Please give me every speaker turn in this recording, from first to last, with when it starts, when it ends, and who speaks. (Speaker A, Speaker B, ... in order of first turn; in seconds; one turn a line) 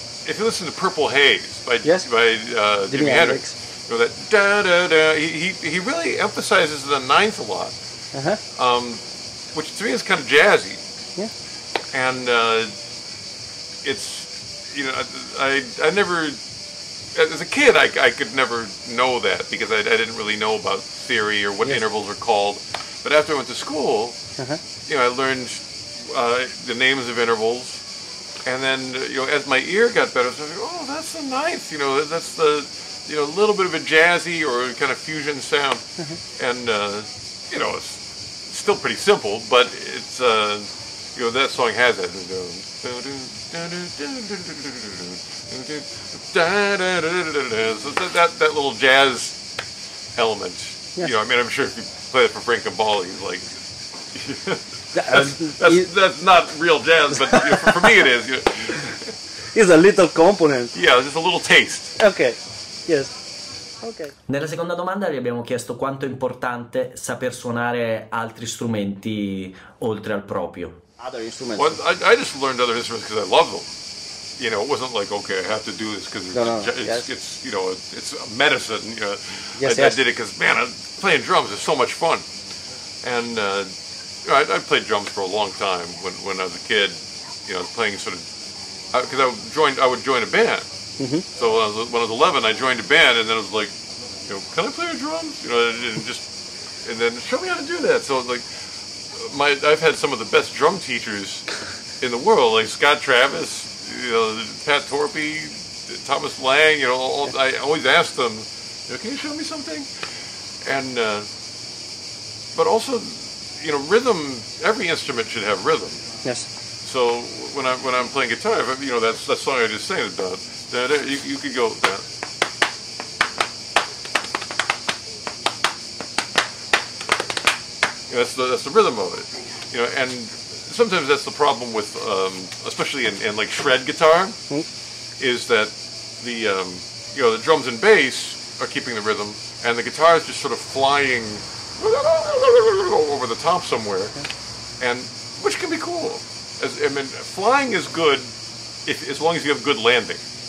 Speaker A: 0.2-7.7
Speaker B: 2.9-3.5
Speaker B: 8.1-8.4
Speaker A: 8.6-9.0
Speaker A: 9.5-10.8
Speaker A: 11.9-12.7
Speaker A: 13.8-16.4
Speaker A: 17.1-24.1
Speaker A: 24.8-27.8
Speaker A: 28.4-35.8
Speaker A: 36.4-49.4
Speaker A: 50.1-53.4
Speaker A: 54.1-59.1
Speaker B: 54.9-55.9
Speaker B: 57.2-58.0
Speaker B: 59.5-60.7
Speaker A: 60.7-62.0
Speaker B: 62.0-63.1
Speaker B: 63.8-64.1
Speaker C: 64.3-70.8
Speaker B: 71.0-71.8
Speaker A: 71.5-73.7
Speaker A: 74.4-82.2
Speaker B: 76.3-77.1
Speaker B: 79.6-80.0
Speaker A: 83.0-83.7
Speaker A: 84.2-88.3
Speaker A: 88.9-90.7
Speaker B: 91.0-91.2
Speaker A: 91.3-93.7
Speaker A: 94.3-96.3
Speaker A: 96.8-98.5
Speaker A: 99.1-101.5
Speaker A: 102.0-109.9
Speaker A: 110.6-111.2
Speaker A: 112.5-116.0
Speaker A: 116.8-122.0
Speaker A: 128.1-134.4
Speaker A: 135.2-144.2
Speaker A: 144.8-148.3
Speaker A: 148.8-150.2